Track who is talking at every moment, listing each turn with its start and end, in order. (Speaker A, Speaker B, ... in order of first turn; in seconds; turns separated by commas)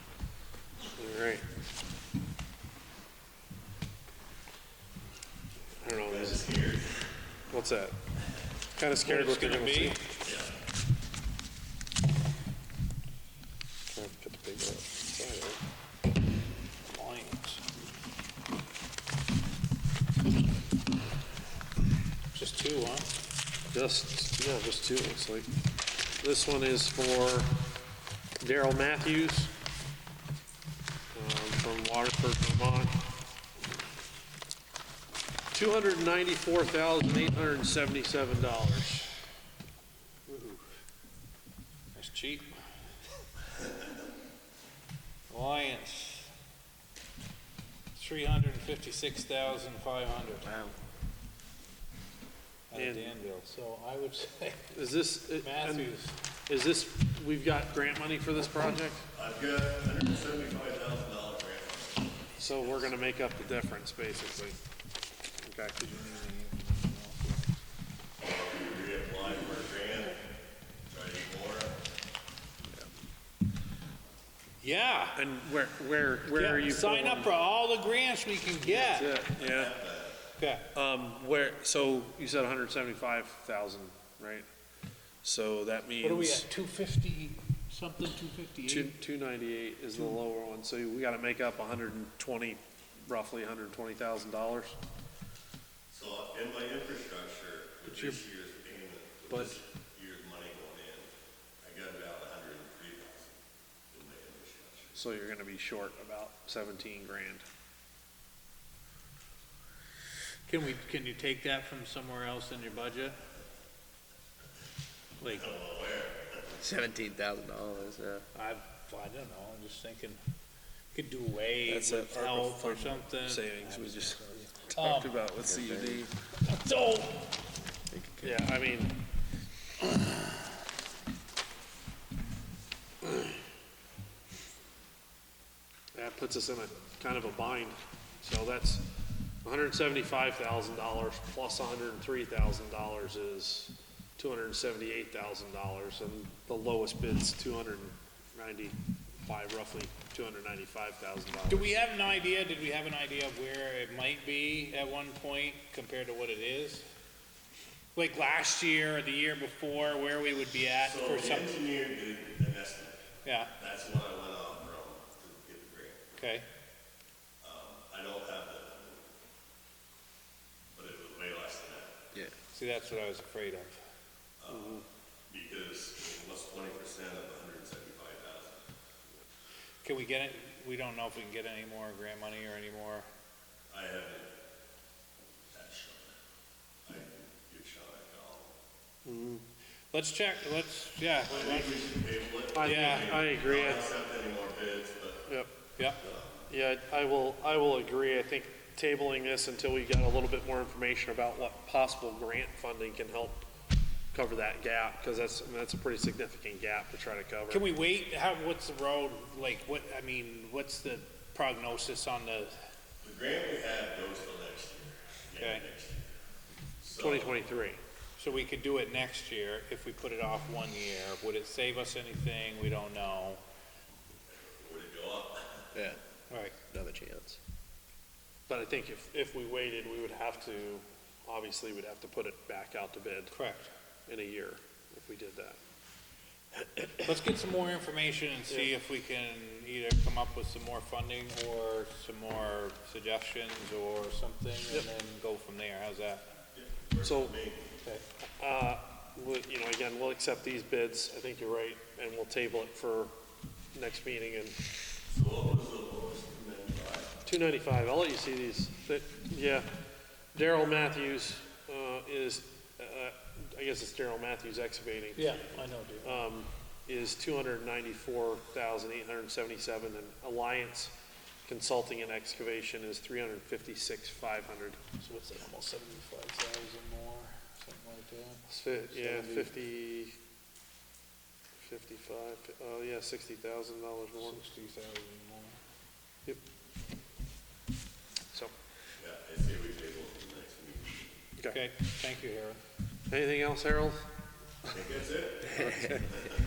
Speaker A: 0.9-1.4, Speaker A: 5.8-6.5, Speaker B: 5.9-7.0, Speaker A: 7.5-8.0, Speaker A: 8.8-10.1, Speaker C: 9.0-10.1, Speaker B: 10.2-10.5, Speaker A: 13.9-15.6, Speaker C: 16.9-17.6, Speaker C: 22.3-23.1, Speaker A: 23.7-25.5, Speaker A: 26.2-27.6, Speaker A: 28.4-29.5, Speaker A: 31.1-33.0, Speaker A: 35.5-39.1, Speaker A: 40.3-40.6, Speaker C: 42.0-42.5, Speaker C: 45.3-46.3, Speaker C: 47.9-50.6, Speaker C: 52.7-54.7, Speaker A: 52.7-53.2, Speaker A: 54.7-56.0, Speaker C: 55.4-56.1, Speaker A: 56.5-59.1, Speaker B: 59.1-62.5, Speaker A: 62.4-64.6, Speaker A: 65.4-65.8, Speaker C: 65.8-67.5, Speaker B: 68.2-70.2, Speaker B: 70.9-71.8, Speaker C: 74.6-75.3, Speaker A: 75.1-77.3, Speaker C: 76.3-79.1, Speaker A: 78.6-79.8, Speaker B: 79.3-80.2, Speaker C: 80.4-80.7, Speaker A: 80.7-84.5, Speaker A: 85.2-86.5, Speaker C: 86.0-88.9, Speaker A: 88.7-94.8, Speaker B: 95.9-101.1, Speaker C: 97.9-98.2, Speaker B: 101.6-103.4, Speaker B: 103.9-105.0, Speaker A: 105.0-107.4, Speaker C: 110.5-113.2, Speaker C: 115.2-115.6, Speaker B: 115.3-116.5, Speaker D: 116.6-118.2, Speaker C: 118.3-120.2, Speaker C: 120.9-125.3, Speaker A: 121.7-124.1, Speaker D: 123.7-124.2, Speaker A: 124.7-126.1, Speaker D: 124.9-126.1, Speaker C: 126.4-127.3, Speaker D: 127.9-128.5, Speaker A: 128.2-129.0, Speaker A: 135.9-138.9, Speaker A: 139.4-151.8, Speaker C: 151.5-156.8, Speaker C: 157.9-161.6, Speaker B: 160.8-163.0, Speaker C: 163.2-163.5, Speaker B: 163.6-166.1, Speaker C: 166.2-166.5, Speaker B: 167.4-169.1, Speaker B: 170.8-172.1, Speaker C: 172.5-173.8, Speaker B: 174.4-178.6, Speaker A: 174.5-174.8, Speaker C: 179.8-183.1, Speaker B: 183.7-184.3, Speaker B: 185.5-186.1, Speaker B: 186.9-188.5, Speaker A: 189.1-189.4, Speaker C: 189.9-191.9, Speaker B: 191.3-195.3, Speaker A: 192.5-193.9, Speaker C: 192.6-193.2, Speaker C: 195.8-196.0, Speaker B: 196.0-196.5, Speaker A: 196.5-203.4, Speaker A: 204.1-207.7, Speaker C: 207.5-212.5, Speaker B: 213.0-216.1, Speaker C: 215.4-215.7, Speaker B: 216.8-217.6, Speaker A: 217.0-217.8, Speaker C: 218.2-223.4, Speaker B: 224.5-225.7, Speaker D: 225.8-226.0, Speaker C: 226.3-226.6, Speaker D: 226.7-227.4, Speaker A: 228.5-233.3, Speaker C: 233.3-233.7, Speaker A: 234.1-235.6, Speaker A: 236.6-237.0, Speaker C: 237.0-246.3, Speaker B: 246.6-247.8, Speaker A: 247.0-247.4, Speaker A: 248.4-253.1, Speaker A: 253.7-254.6, Speaker B: 255.1-257.1, Speaker A: 257.3-259.7, Speaker A: 260.3-270.9, Speaker C: 265.2-266.2, Speaker A: 271.5-274.9, Speaker C: 275.0-279.5, Speaker A: 278.5-280.2, Speaker A: 281.6-284.4, Speaker C: 284.2-285.6, Speaker B: 289.0-291.1, Speaker C: 291.5-292.6, Speaker A: 293.1-294.1, Speaker B: 294.7-296.4, Speaker D: 295.6-296.1